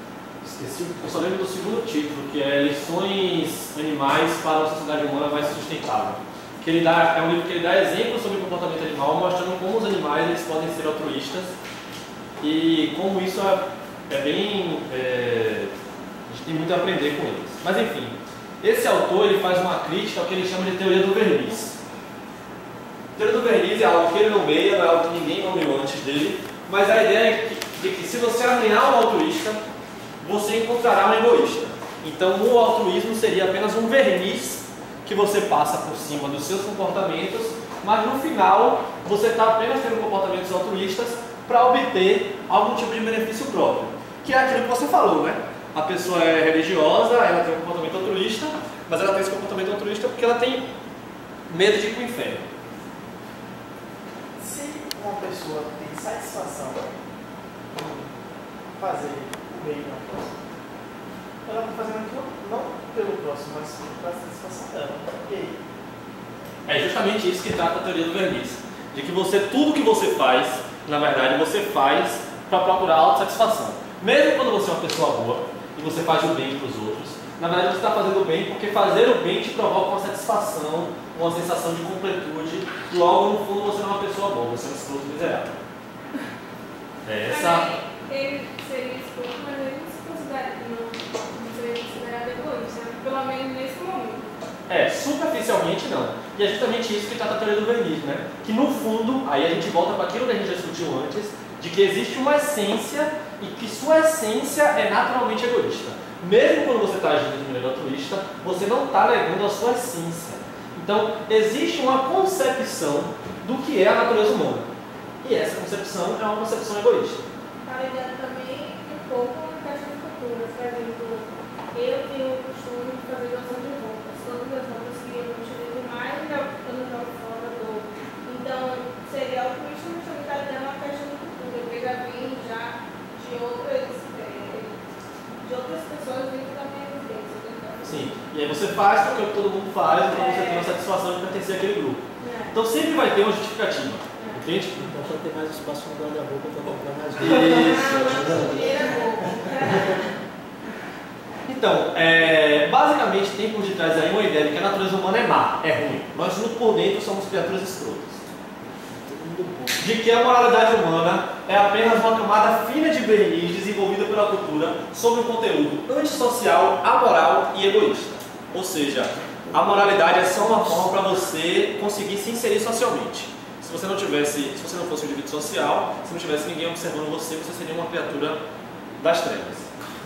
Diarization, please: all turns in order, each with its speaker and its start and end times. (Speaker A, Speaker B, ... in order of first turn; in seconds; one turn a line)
Speaker A: 0.4-11.5
Speaker A: 12.4-15.7
Speaker A: 16.3-21.8
Speaker A: 23.1-29.6
Speaker A: 30.2-50.7
Speaker A: 51.5-52.5
Speaker B: 54.4-57.0
Speaker B: 57.7-58.1
Speaker B: 58.8-60.4
Speaker B: 61.5-65.6
Speaker A: 66.7-85.6
Speaker A: 87.0-87.7
Speaker C: 87.3-94.3
Speaker A: 94.7-114.7
Speaker A: 115.2-117.2
Speaker C: 117.6-134.7
Speaker C: 135.4-138.1
Speaker A: 137.8-144.9
Speaker C: 140.0-140.7
Speaker C: 142.2-142.5
Speaker D: 144.8-149.9
Speaker A: 147.2-148.6
Speaker C: 147.4-150.1
Speaker A: 151.4-158.3
Speaker D: 159.1-159.8
Speaker A: 159.8-178.4
Speaker A: 179.0-179.7